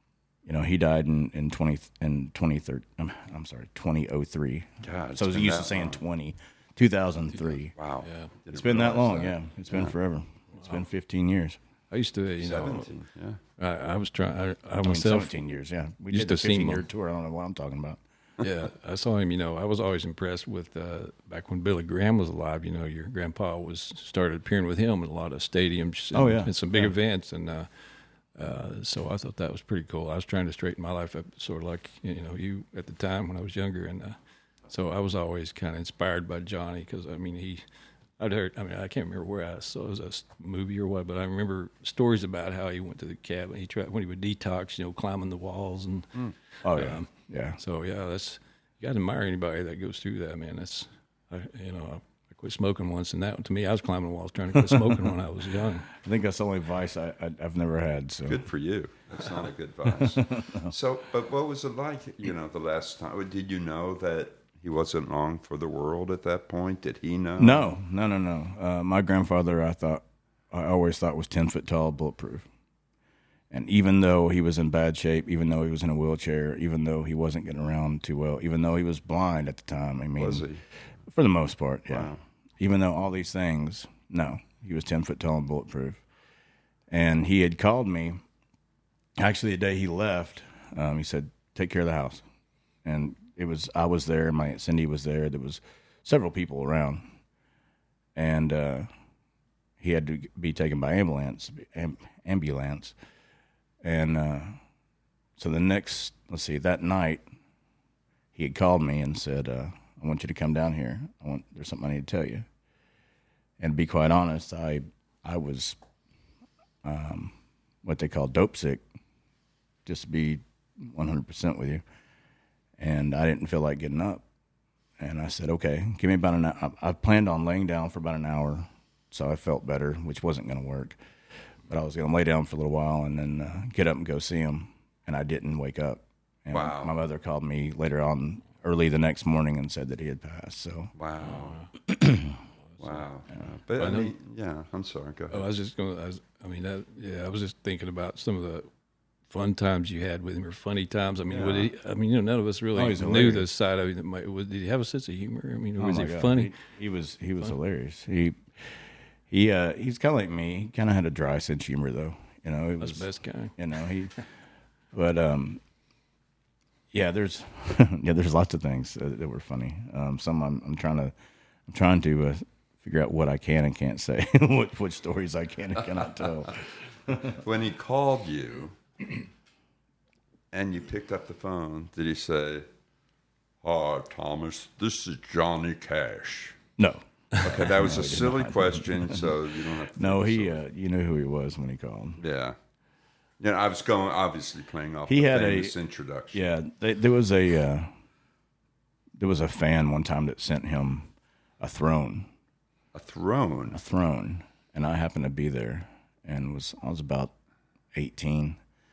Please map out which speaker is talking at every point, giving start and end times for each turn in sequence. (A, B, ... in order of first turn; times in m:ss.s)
0:00.4-0:07.7 A
0:04.8-0:06.0 B
0:07.8-0:09.9 B
0:08.0-0:08.3 C
0:08.5-0:11.6 A
0:11.9-0:12.9 C
0:12.4-0:13.4 B
0:13.6-0:15.4 C
0:14.8-0:18.0 A
0:16.1-0:16.8 C
0:18.4-0:27.7 C
0:26.1-0:26.9 A
0:28.4-0:34.2 C
0:34.7-0:37.6 C
0:38.2-0:55.9 C
0:46.6-0:47.6 A
0:54.5-0:55.1 A
0:55.9-0:58.4 A
0:58.2-1:07.8 B
0:59.8-1:00.7 A
1:07.4-1:12.5 A
1:13.5-1:20.4 A
1:20.2-1:20.6 B
1:21.1-1:26.0 A
1:21.9-1:22.2 B
1:26.9-1:28.2 A
1:29.2-1:32.2 A
1:32.8-1:37.0 A
1:38.1-1:38.9 A
1:39.8-1:42.9 A
1:43.8-1:44.6 A
1:45.4-1:47.2 A
1:48.3-1:52.4 A
1:53.6-1:55.8 A
1:56.8-1:58.8 A
1:59.8-2:01.8 A
2:02.8-2:04.2 A
2:05.0-2:11.0 A
2:11.7-2:20.9 A
2:16.5-2:16.9 B
2:21.0-2:21.6 B
2:21.2-2:21.7 C
2:21.8-2:22.4 A
2:22.8-2:23.0 C
2:22.8-2:25.4 B
2:23.8-2:24.1 C
2:25.3-2:28.7 C
2:29.3-2:36.5 C
2:31.3-2:31.7 B
2:32.7-2:33.5 A
2:35.8-2:38.4 A
2:39.3-2:44.1 A
2:42.8-2:43.5 C
2:44.9-2:45.6 A
2:46.9-2:51.1 A
2:51.7-2:57.4 A
2:57.2-2:58.8 B
3:00.5-3:02.6 B
3:03.6-3:06.6 B
3:06.8-3:09.3 A
3:07.4-3:10.6 B
3:09.9-3:12.2 A
3:12.2-3:12.6 B
3:13.4-3:16.4 B
3:15.1-3:15.7 A
3:16.3-3:17.9 A
3:19.2-3:22.3 A
3:22.9-3:23.8 B
3:23.7-3:27.3 A
3:27.9-3:28.6 A